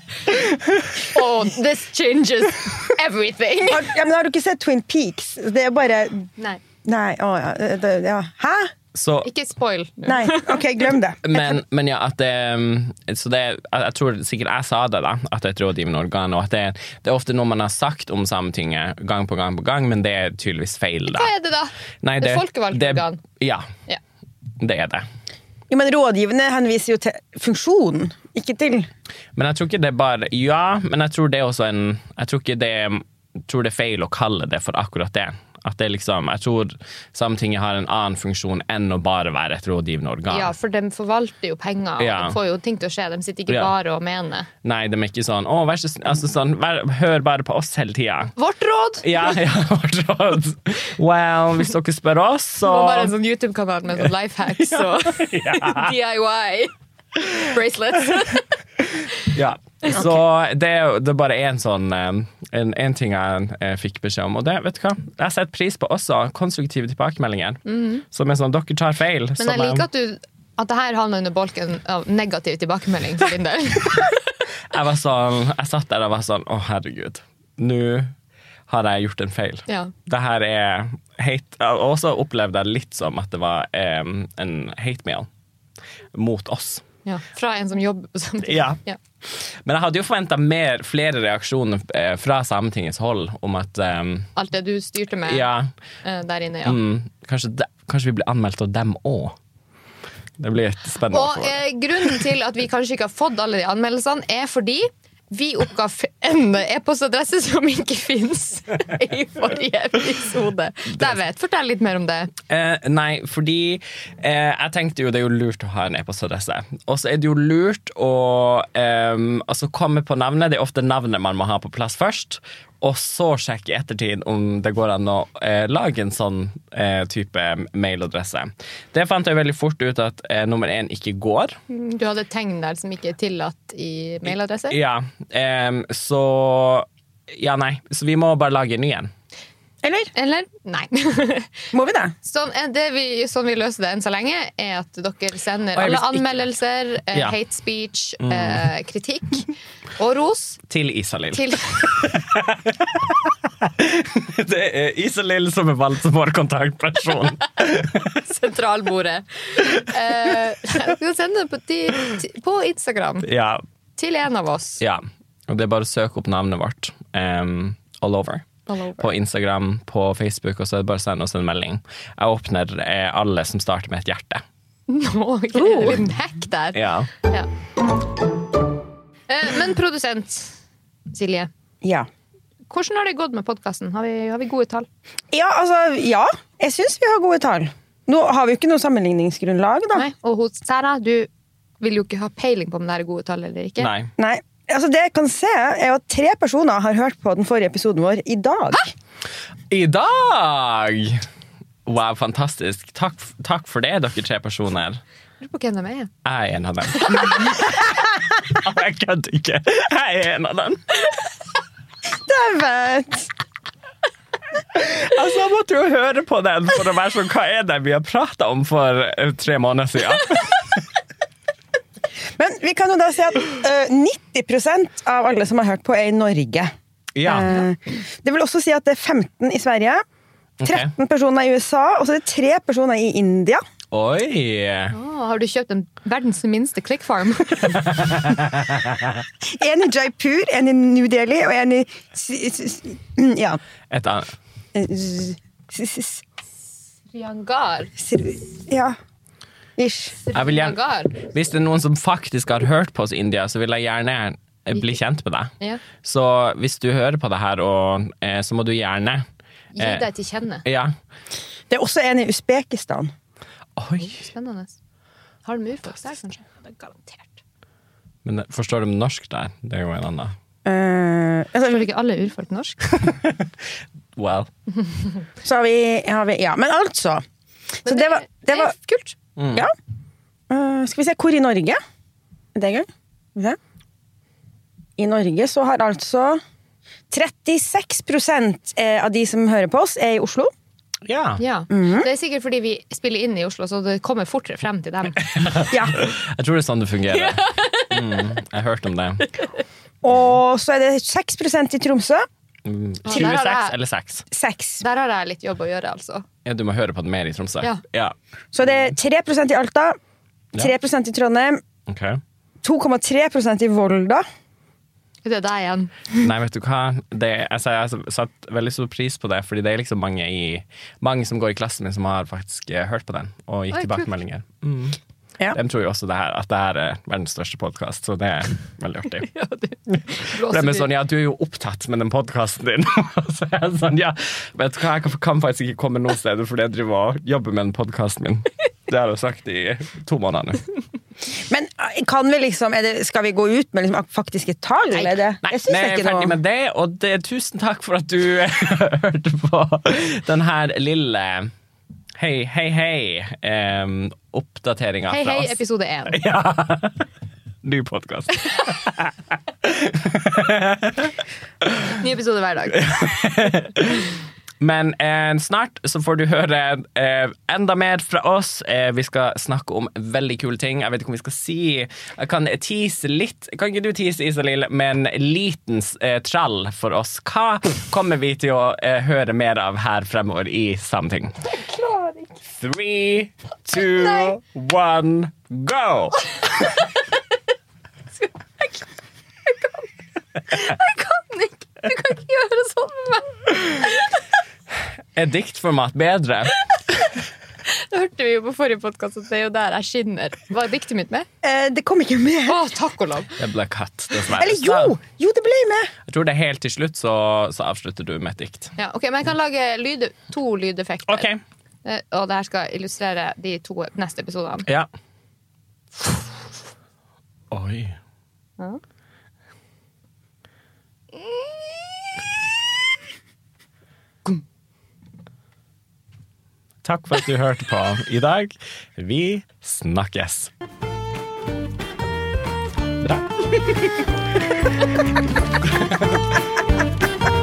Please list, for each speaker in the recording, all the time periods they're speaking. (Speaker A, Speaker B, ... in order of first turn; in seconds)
Speaker A: 0.9-3.9, 9.2-10.6, 21.1-23.2, 40.3-44.5, 48.4-49.3, 52.6-58.5, 67.7-68.0, 69.4-74.3, 79.7-79.9, 87.0-89.0, 94.4-95.5, 96.0-96.8, 101.1-112.3, 131.7-134.8, 140.1-141.6, 142.2-150.6, 151.3-151.8, 158.2-163.3, 164.0-164.8, 168.7-169.1, 174.9-177.5, 179.3-180.6, 181.1-181.5, 182.7-184.9, 189.9-193.9, 205.4-206.1, 234.9-237.9, 247.1-247.9, 250.2-251.2, 259.8-260.6, 264.0-264.8, 265.4-267.4, 271.7-272.8, 277.9-279.2, 291.4-295.2, 297.1-298.1, 303.1-303.8, 304.8-306.3, 315.2-315.9, 323.7-324.1, 329.3-330.9, 355.1-356.2, 361.8-362.9, 381.8-382.1, 383.8-384.3, 388.2-388.9, 389.4-389.9, 390.5-394.2, 397.7-401.3, 402.5-403.4, 408.8-411.3, 411.9-414.7, 421.1-421.9
Speaker B: 3.7-6.3, 6.8-8.7, 10.1-11.4, 25.7-28.9, 139.8-140.1, 141.7-142.1, 185.3-190.1, 194.2-198.9, 212.2-213.3, 222.4-226.7, 227.2-230.0, 230.7-233.6, 239.4-243.6, 244.8-246.2, 248.0-248.9, 249.8-250.2, 261.7-263.1, 270.6-271.9, 275.4-277.2, 277.9-278.7, 280.5-281.8, 282.6-283.6, 285.0-286.4, 287.1-290.5, 291.7-292.1, 300.0-302.3, 304.3-304.8, 308.5-310.0, 310.5-311.6, 312.6-314.2, 341.5-346.4, 401.4-402.6, 404.4-405.9
Speaker C: 8.9-9.3, 11.2-21.3, 22.0-23.7, 24.6-25.1, 29.4-40.5, 42.0-42.4, 44.6-48.3, 49.0-53.1, 54.9-55.9, 59.3-67.6, 68.1-69.9, 74.7-78.1, 78.7-85.3, 86.2-86.8, 88.4-94.3, 95.3-95.7, 96.7-99.3, 100.4-101.6, 112.5-131.6, 134.3-139.1, 145.8-146.4, 148.2-148.7, 150.7-158.2, 163.2-163.6, 164.8-168.4, 169.0-174.4, 175.7-176.0, 176.7-177.1, 193.8-194.1, 199.7-201.2, 201.9-205.0, 206.2-211.0, 214.8-220.8, 227.2-227.5, 230.6-230.9, 233.9-235.0, 237.9-239.1, 243.9-244.3, 250.3-259.2, 259.8-260.1, 260.6-260.9, 263.8-264.3, 268.2-270.3, 272.9-273.4, 274.2-274.5, 279.4-279.7, 291.1-291.4, 295.2-299.3, 302.6-304.2, 306.4-308.1, 308.6-308.9, 311.9-312.2, 316.2-325.0, 325.5-329.3, 329.9-340.6, 344.9-351.5, 352.2-355.6, 356.1-357.0, 357.6-361.1, 362.8-381.4, 382.6-386.4, 395.2-396.6, 403.4-405.0, 406.1-408.8, 411.1-411.4, 417.5-417.9, 426.8-430.5, 433.0-433.9